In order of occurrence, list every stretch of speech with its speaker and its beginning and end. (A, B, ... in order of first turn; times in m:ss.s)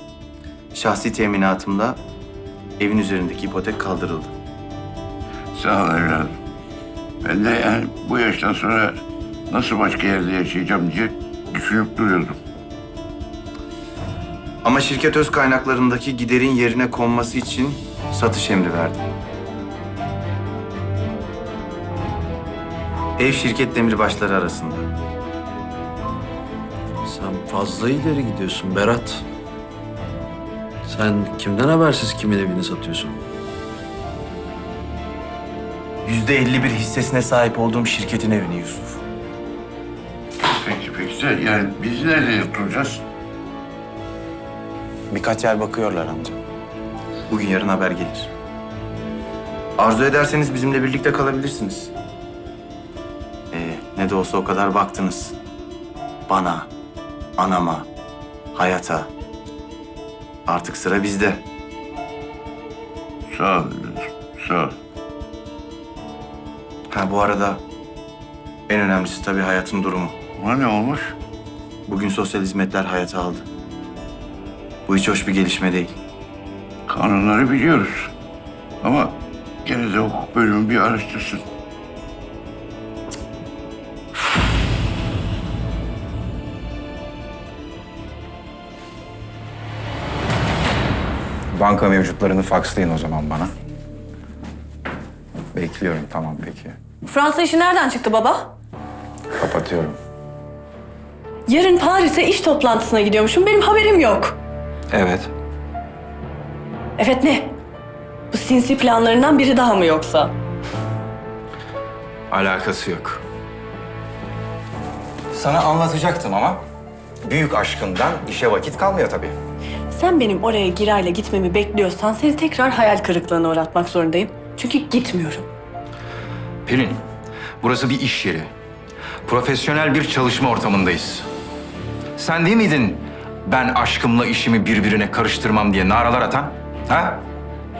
0:00.7-0:02.0 A
0:02.8-0:04.3 A
0:05.5-0:06.3 B
0:07.2-0:12.4 B
0:14.6-0:19.0 A
0:23.2-0:24.9 A
0:27.0-0:29.2 C
0:30.8-0:33.2 C
0:36.0-0:39.0 A
0:40.5-0:43.0 B
0:45.1-0:46.4 A
0:47.3-0:48.3 A
0:49.8-0:51.9 A
0:53.5-0:55.4 A
0:56.3-0:56.7 A
0:57.4-0:57.9 A
0:58.5-0:59.1 A
1:00.5-1:01.4 A
1:03.3-1:04.8 B
1:06.9-1:07.6 A
1:08.7-1:10.2 A
1:10.4-1:11.2 B
1:11.9-1:13.4 A
1:14.9-1:15.9 A
1:16.9-1:18.1 B
1:18.8-1:21.4 B
1:31.5-1:33.5 D
1:35.5-1:36.8 D
1:37.0-1:38.5 E
1:39.4-1:40.0 D
1:41.5-1:44.4 E
1:44.9-1:45.3 D
1:47.0-1:47.5 E
1:48.3-1:50.3 E
1:52.3-1:53.2 D
1:55.3-1:56.6 D
1:57.2-1:59.3 D
1:59.9-2:05.5 E
2:06.6-2:07.0 D
2:07.6-2:08.5 D
2:09.2-2:11.3 D
2:12.2-2:17.2 D